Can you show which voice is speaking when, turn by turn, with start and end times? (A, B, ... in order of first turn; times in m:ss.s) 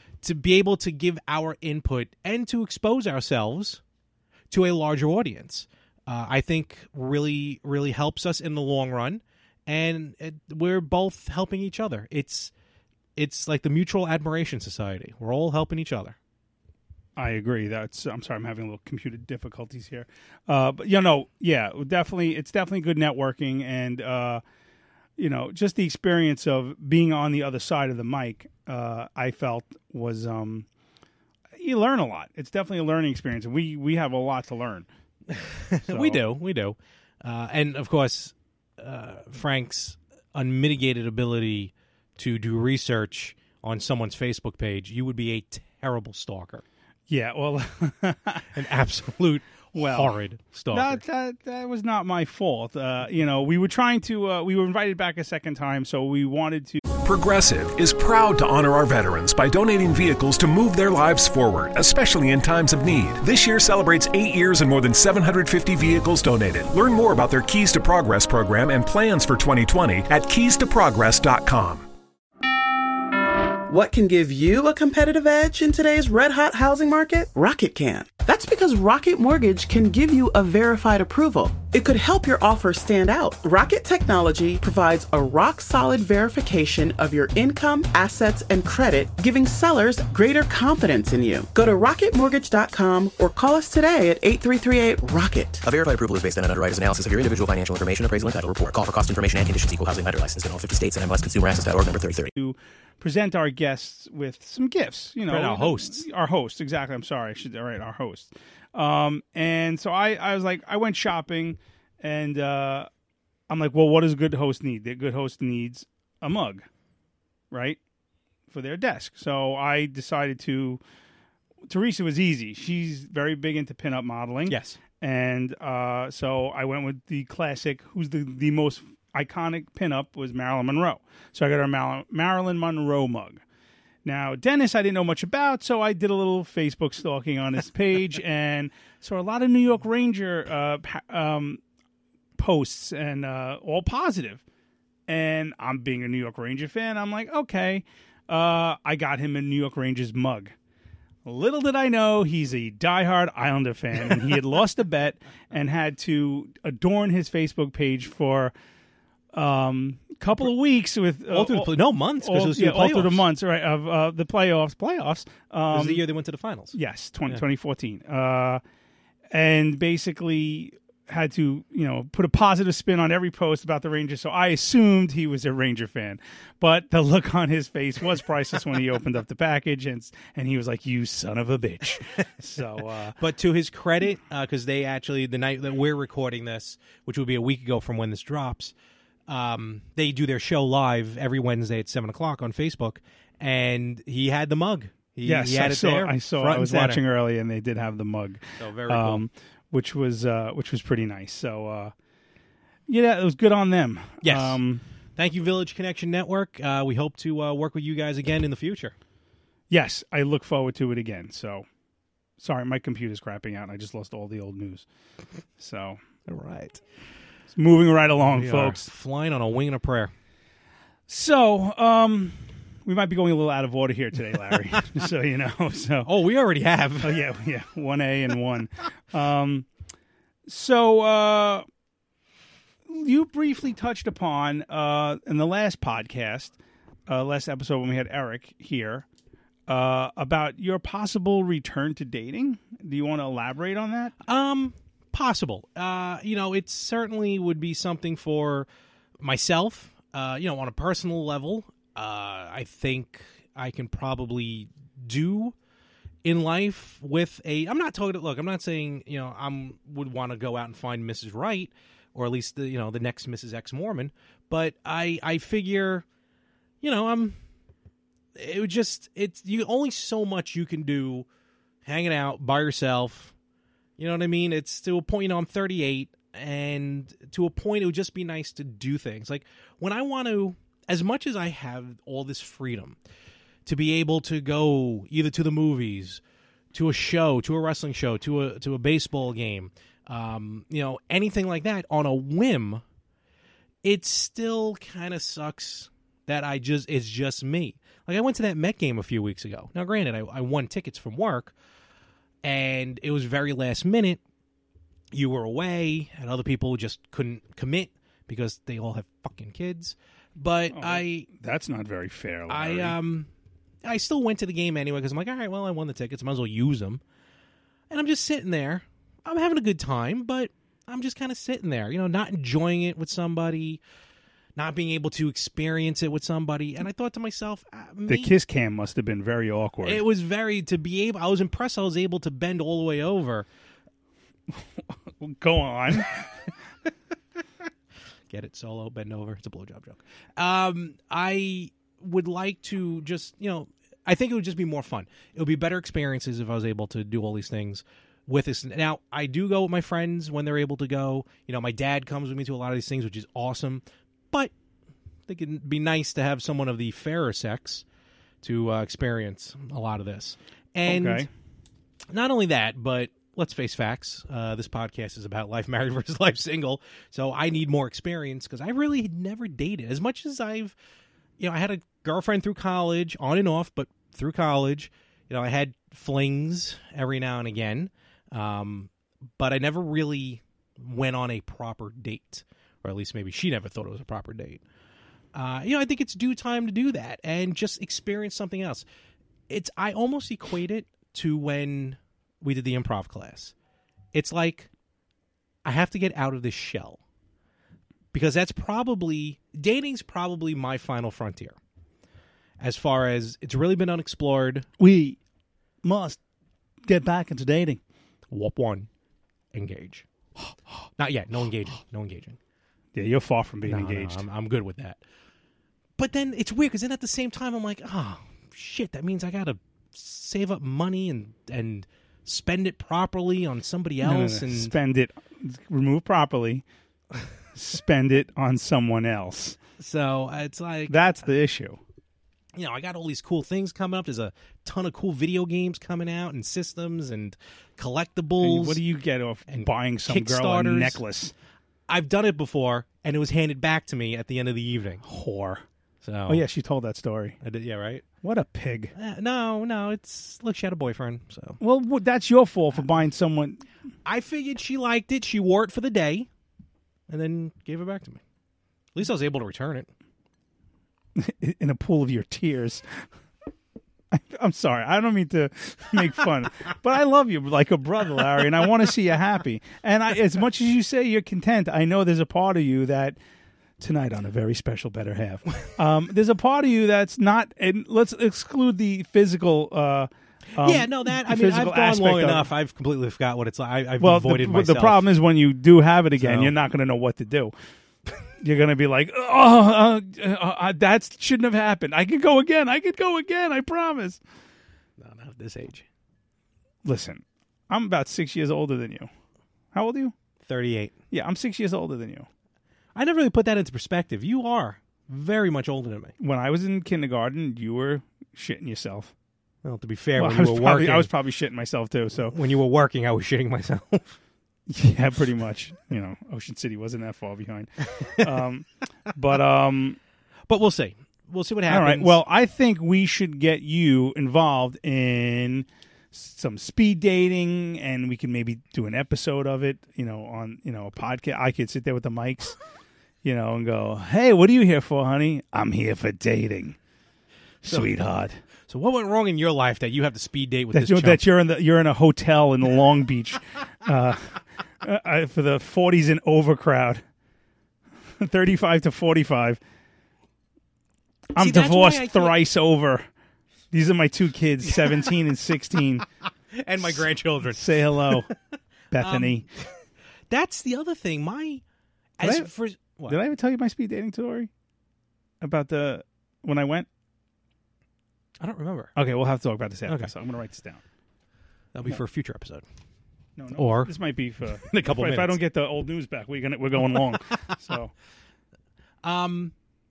0:00.2-0:03.8 A
0:04.5-0:12.5 A
0:13.2-0:16.2 A
0:17.2-0:24.4 B
0:25.2-0:30.7 B
0:31.6-0:34.9 B
0:35.3-0:46.6 A
0:35.9-0:36.2 B
0:47.1-0:48.5 B
0:48.5-0:51.0 A
0:49.7-0:50.1 B
0:50.7-0:56.8 B
0:57.0-1:11.9 C
1:13.7-1:35.6 D
1:35.6-1:42.3 E
1:42.4-1:52.9 B
1:45.3-1:46.0 A
1:53.5-1:56.6 B
1:57.5-1:57.8 B
1:58.5-2:00.8 B
2:01.7-2:13.4 B
2:04.5-2:04.8 A
2:14.0-2:21.6 B
2:22.4-2:24.4 B
2:25.1-2:30.5 B
2:31.2-2:38.5 B
2:39.3-2:46.0 B
2:41.3-2:43.3 A
2:45.7-2:46.7 A
2:46.7-2:48.6 B
2:49.3-3:03.2 B
3:03.2-3:08.7 A
3:09.3-3:17.0 A
3:15.2-3:21.9 B
3:18.6-3:19.2 A
3:22.9-3:24.8 B
3:24.2-3:24.6 A
3:25.2-3:28.9 A
3:29.7-3:31.6 B
3:32.4-3:34.8 B
3:35.6-3:36.0 B
3:36.2-3:36.8 A
3:37.5-3:38.8 B
3:38.2-3:40.1 A
3:41.1-3:46.1 B
3:46.0-3:47.2 A
3:47.0-3:49.7 B
3:50.5-3:51.6 B
3:52.9-3:56.6 B
3:57.1-3:59.0 B
3:59.7-4:04.1 B
4:04.2-4:08.7 A
4:09.2-4:15.5 A
4:16.2-4:26.0 A
4:26.8-4:27.4 A
4:28.3-4:31.3 A
4:31.8-4:33.3 A
4:34.0-4:43.0 A
4:43.6-4:46.2 A
4:46.7-4:52.8 A
4:53.8-5:01.5 A
5:02.4-5:04.2 A
5:05.1-5:11.3 A
5:10.7-5:13.0 B
5:12.5-5:13.3 A
5:13.8-5:17.0 A
5:17.9-5:23.8 A
5:24.6-5:28.3 A
5:28.1-5:30.0 B
5:29.8-5:33.5 A
5:35.2-5:36.3 B
5:38.3-5:54.5 A
5:55.3-5:57.8 A
5:58.4-6:01.3 A
6:00.8-6:01.3 B
6:02.1-6:10.8 A
6:11.4-6:24.6 A
6:25.3-6:28.8 A
6:29.5-6:33.5 A
6:34.1-6:34.7 A
6:35.6-6:37.0 A
6:38.1-6:41.6 A
6:42.6-6:44.7 A
6:44.8-6:45.2 B
6:45.8-6:46.2 B
6:46.8-6:47.8 B
6:48.3-6:48.9 A
6:49.5-6:52.4 A
6:52.9-6:54.2 B
6:53.6-6:55.0 A
6:56.0-7:04.7 A
7:04.0-7:06.6 B
7:07.5-7:09.6 B
7:09.8-7:11.0 A
7:10.9-7:11.8 B
7:12.5-7:18.8 A
7:18.4-7:21.3 B
7:19.5-7:21.0 A
7:21.9-7:25.0 A
7:25.0-7:25.6 B
7:26.0-7:26.4 A
7:26.3-7:27.4 B
7:27.4-7:28.0 A
7:28.2-7:28.9 B
7:28.9-7:31.6 A
7:31.6-7:33.6 B
7:34.0-7:36.3 A
7:37.1-7:38.2 A
7:38.9-7:39.9 A
7:41.2-7:42.8 B
7:44.1-7:53.2 B
7:53.8-8:02.5 B
8:00.6-8:05.1 A
8:04.0-8:07.5 B
8:06.2-8:06.5 A
8:08.4-8:14.2 B
8:15.0-8:15.8 A
8:16.8-8:19.1 B
8:19.7-8:20.1 B
8:20.4-8:20.9 A
8:21.1-8:22.3 B
8:22.9-8:26.1 A
8:26.2-8:29.1 B
8:29.6-8:31.1 A
8:30.2-8:32.3 B
8:32.2-8:34.2 A
8:34.7-8:40.0 B
8:40.5-8:42.2 A
8:41.7-8:52.6 B
8:53.2-8:56.8 B
8:57.6-8:58.4 B
8:57.7-8:57.9 A
8:58.7-9:01.2 A
9:00.7-9:07.0 B
9:08.2-9:09.6 B
9:11.3-9:13.0 B
9:11.4-9:12.4 A
9:13.7-9:16.0 B
9:16.5-9:18.3 A
9:16.8-9:18.3 B
9:18.9-9:19.5 B
9:18.9-9:19.6 A
9:20.3-9:21.6 A
9:22.2-9:23.2 A
9:22.2-9:22.5 B
9:23.1-9:24.5 B
9:25.4-9:26.9 B
9:28.4-9:28.9 A
9:29.0-9:30.8 B
9:29.9-9:30.1 A
9:31.7-9:32.6 A
9:33.4-9:37.9 B
9:33.6-9:33.9 A
9:34.6-9:35.4 A
9:36.8-9:37.2 A
9:39.0-9:39.5 A